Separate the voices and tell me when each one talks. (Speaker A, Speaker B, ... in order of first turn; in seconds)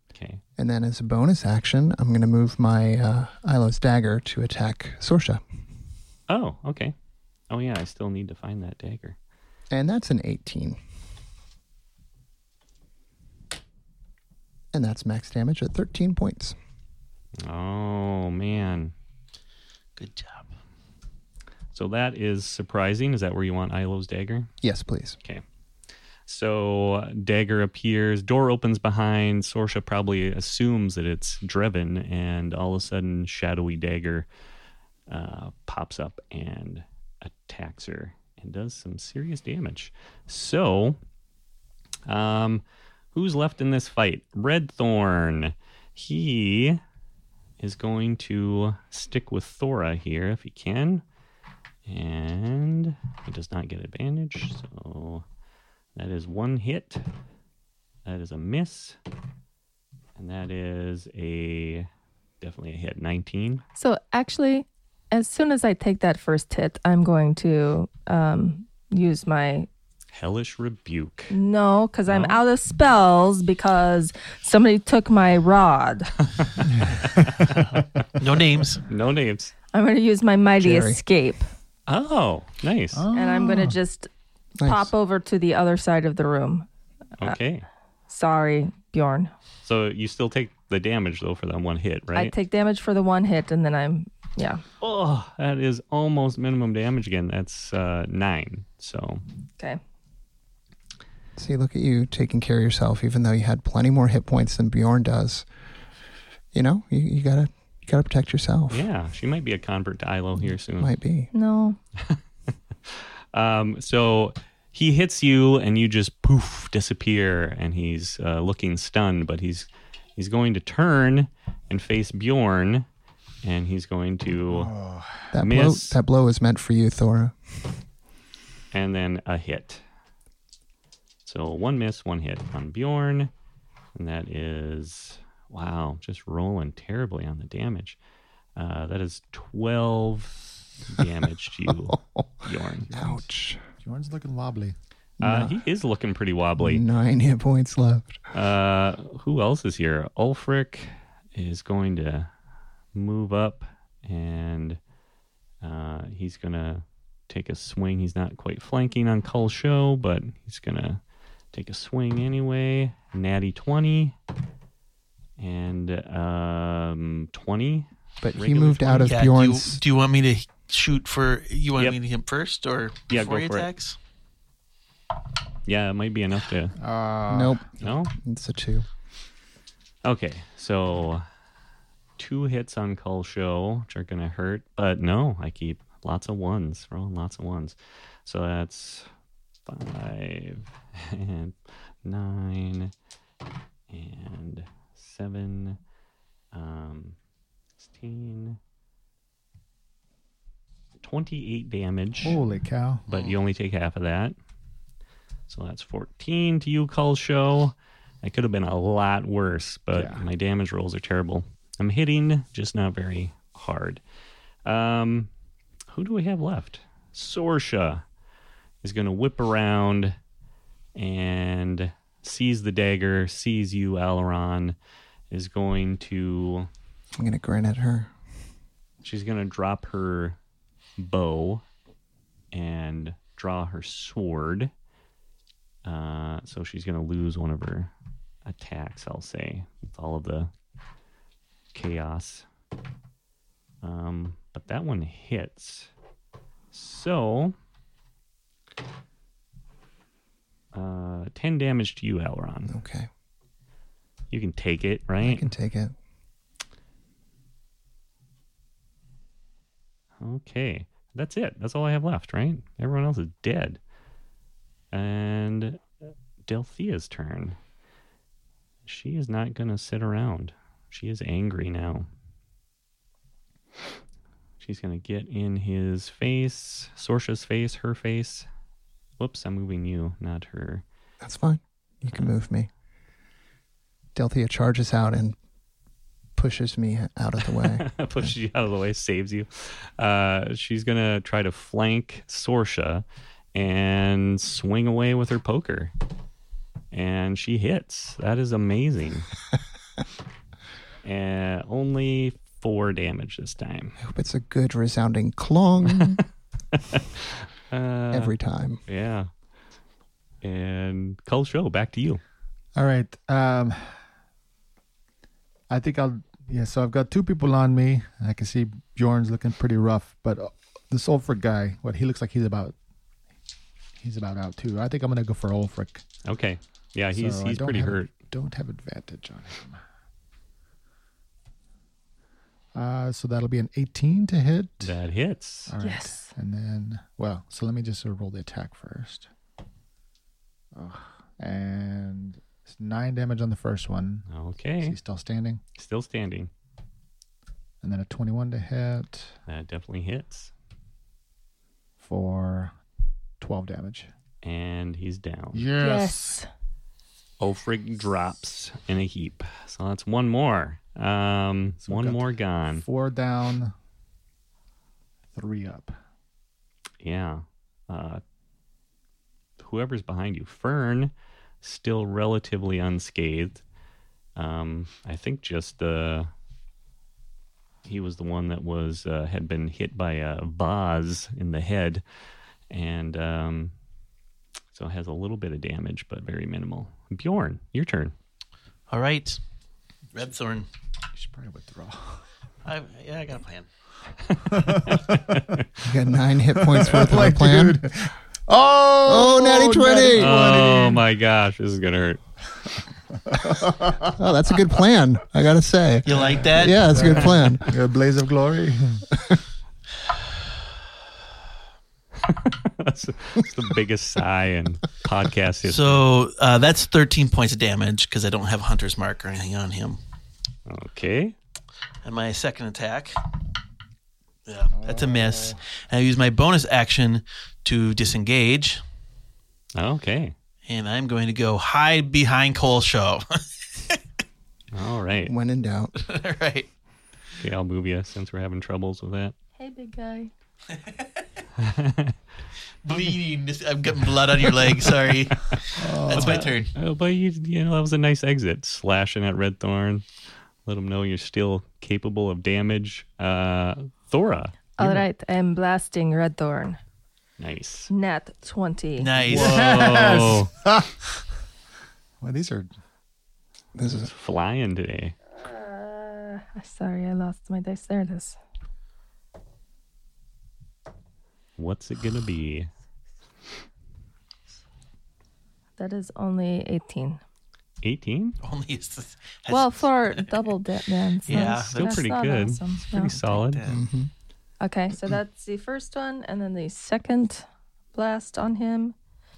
Speaker A: 0.1-0.4, 6.3-6.9, 7.5-9.2, 17.4-18.9, 21.7-24.5, 26.3-34.2, 35.1-41.0, 42.1-42.6, 43.1-46.8, 47.6-51.0, 51.9-55.2, 56.0-57.0, 58.0-59.0, 60.1-61.9, 62.4-63.6, 70.1-71.3, 72.1-72.4, 78.9-79.5, 81.9-83.0, 87.2-87.7, 89.6-92.3, 94.8-99.2, 108.7-110.9, 112.9-122.8, 123.4-124.7, 125.4-126.0, 128.7-129.8, 131.2-133.3, 133.9-137.9, 138.6-142.9, 145.2-146.8, 148.3-152.3, 152.9-154.8, 155.6-161.0, 161.5-164.1, 165.4-169.1, 173.1-173.7, 175.7-176.8, 177.8-178.1, 180.0-181.2, 182.2-189.1, 189.7-192.9, 193.9-195.8, 196.5-197.1, 197.8-198.6, 201.0-202.4, 203.1-204.3, 205.5-214.0, 214.6-215.3, 215.9-218.0, 218.8-220.2, 220.9-224.8, 225.3-226.7, 229.0-230.4, 231.0-231.6, 232.5-234.7, 235.8-237.9, 238.4-240.5, 241.7-242.4, 243.8-245.9, 246.7-247.5, 250.7-252.7, 254.3-255.5, 260.2-263.8, 264.9-265.8, 266.5-267.6, 268.9-272.1, 274.6-278.4, 279.2-280.8, 287.6-293.0, 293.5-295.9, 296.9-299.3, 301.0-303.9, 305.9-308.3, 308.9-309.3, 310.4-312.2, 326.2-328.1, 334.8-335.7, 344.3-345.0, 345.8-346.5, 349.5-350.5, 354.4-355.6, 357.4-362.8, 367.0-368.2, 369.6-373.6, 374.4-376.3, 377.8-382.0, 382.7-383.7, 384.7-388.1, 394.3-395.6, 400.1-402.2, 406.9-407.4, 412.2-416.0, 420.6-421.4, 429.8-430.3, 434.7-435.3, 437.4-439.3, 441.6-442.1, 446.1-450.0, 450.6-454.6, 457.4-457.9, 459.2-460.5, 463.9-465.1, 471.6-472.7, 477.8-478.4, 481.3-483.6
Speaker B: 0.6-5.4, 9.7-10.8, 14.7-16.6, 24.6-25.2, 80.6-81.0, 84.6-84.9, 101.3-105.5, 106.5-108.8, 110.8-111.3, 125.3-127.4, 141.9-143.6, 145.2-145.6, 146.6-148.2, 168.2-169.8, 177.3-178.8, 227.1-228.1, 252.7-253.1, 255.2-255.9, 281.2-282.7, 284.1-285.4, 286.4-287.9, 304.0-306.2, 308.1-308.8, 395.8-397.8, 399.1-400.6, 403.6-407.7, 435.2-435.9, 463.8-464.1, 483.7-484.1
Speaker C: 19.9-20.5, 78.2-78.8, 168.9-173.9, 203.1-203.3, 388.9-389.4, 390.1-390.7, 392.6-393.7, 406.0-406.9, 415.6-420.0, 422.0-423.2, 424.5-428.8, 430.6-434.0, 435.9-436.7, 440.7-441.1, 442.8-446.7, 459.0-459.6, 478.4-480.3, 481.2-482.0, 482.9-483.8
Speaker D: 63.7-69.7, 71.3-76.1, 79.7-81.5, 83.1-84.1, 84.6-86.7, 88.1-89.3, 92.1-94.6, 111.3-111.8, 335.8-336.3, 355.8-356.5, 439.6-440.3, 454.8-456.8, 457.9-459.1, 465.4-468.4, 475.8-477.2, 479.5-483.1, 484.6-488.9
Speaker E: 76.8-77.8, 82.9-83.8, 124.5-125.3, 142.8-143.3, 143.8-144.8, 176.8-177.6, 202.2-203.0, 209.9-210.2, 312.7-314.0, 315.7-322.7, 324.0-326.0, 327.1-329.8, 332.7-334.9, 335.7-339.3, 340.7-344.2, 344.8-345.6, 347.8-349.3, 352.0-352.7, 353.4-354.1, 355.5-356.4, 361.8-362.3, 362.8-363.7, 365.3-366.0, 391.1-392.2, 394.4-395.6, 396.6-401.0, 403.1-404.2, 406.1-409.1, 424.7-425.6, 445.8-446.5, 459.2-461.2, 462.2-462.7